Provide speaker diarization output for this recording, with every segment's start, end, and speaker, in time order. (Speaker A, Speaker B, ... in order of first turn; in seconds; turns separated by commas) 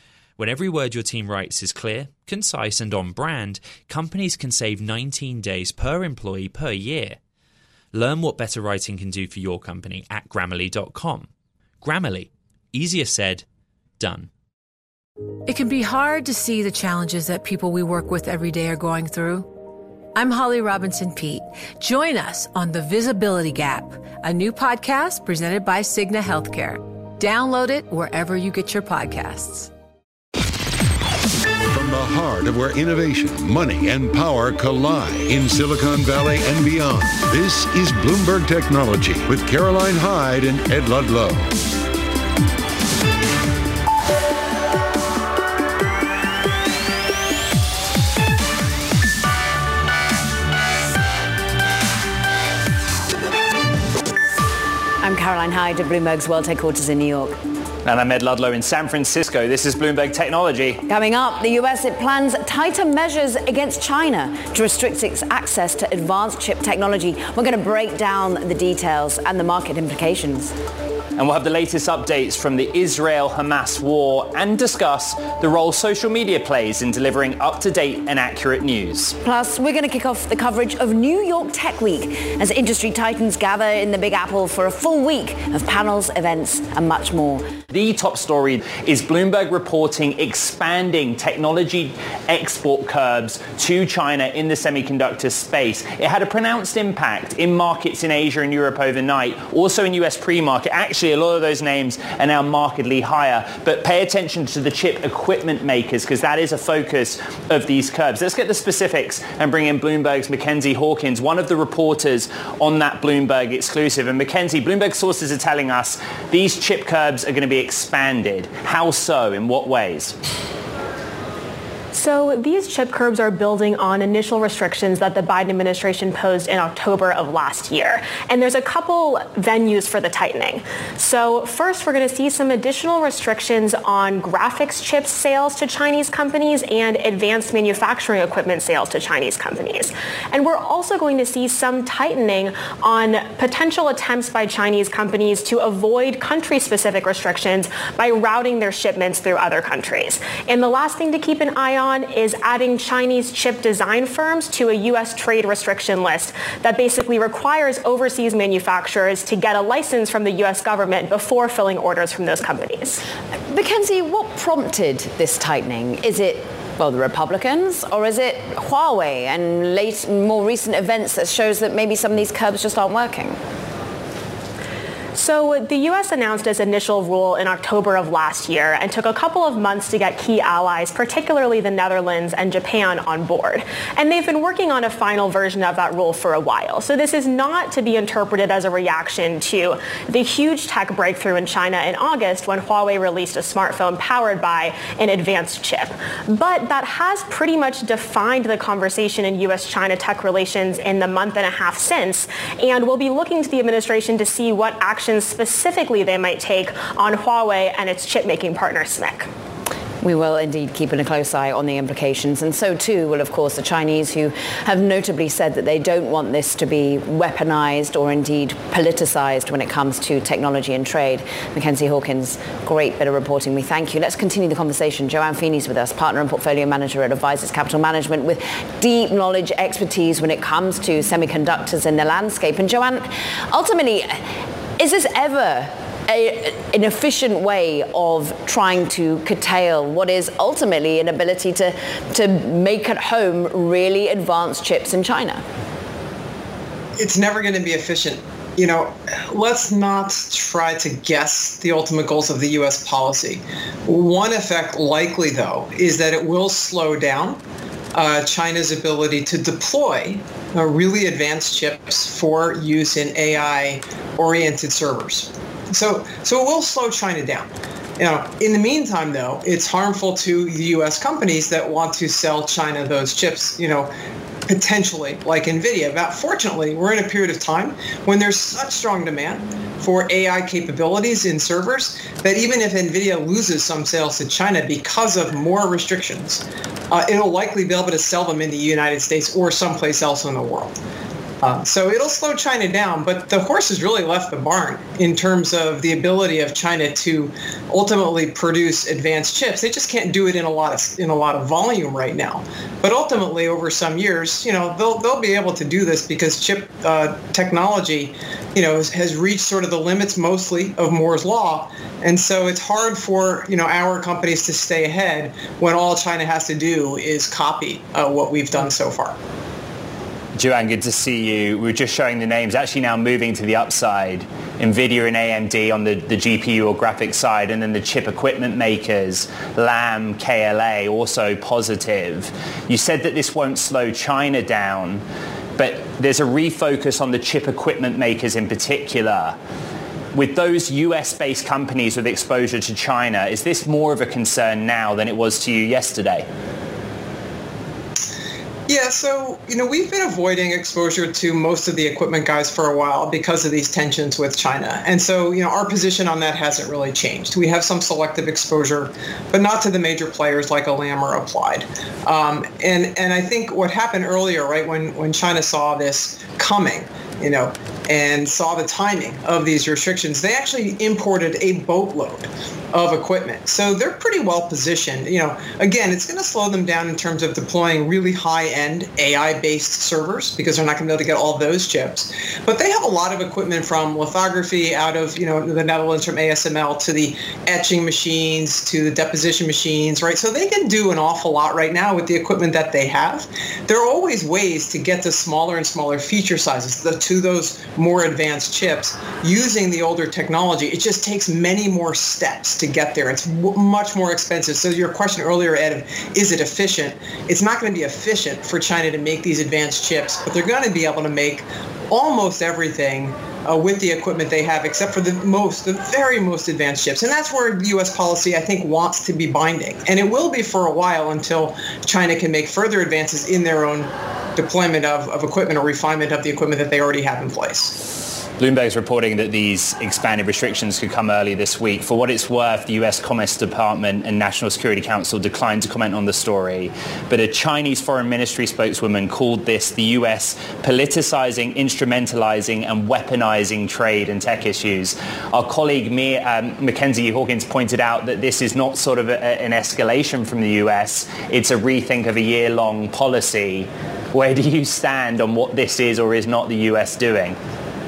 Speaker A: 0.4-7.2, Speaker A: 7.9-11.3, Speaker A: 11.8-13.4, Speaker A: 14.0-14.3, Speaker B: 15.4-19.5, Speaker B: 20.1-29.7, Speaker C: 31.7-41.5, Speaker D: 55.0-57.4, Speaker E: 57.8-60.8, Speaker D: 60.9-70.5, Speaker E: 71.2-79.2, Speaker D: 79.2-87.5, Speaker E: 87.7-120.2, Speaker F: 121.9-163.0, Speaker D: 163.5-173.4, Speaker F: 175.1-209.3, Speaker D: 210.0-234.2, Speaker D: 234.8-245.4, Speaker G: 247.0-257.4, Speaker G: 257.9-273.9, Speaker G: 274.5-290.8, Speaker G: 291.4-319.1, Speaker E: 320.4-335.0, Speaker E: 335.6-339.4, Speaker E: 340.1-346.2, Speaker G: 348.7-427.8, Speaker E: 428.4-457.4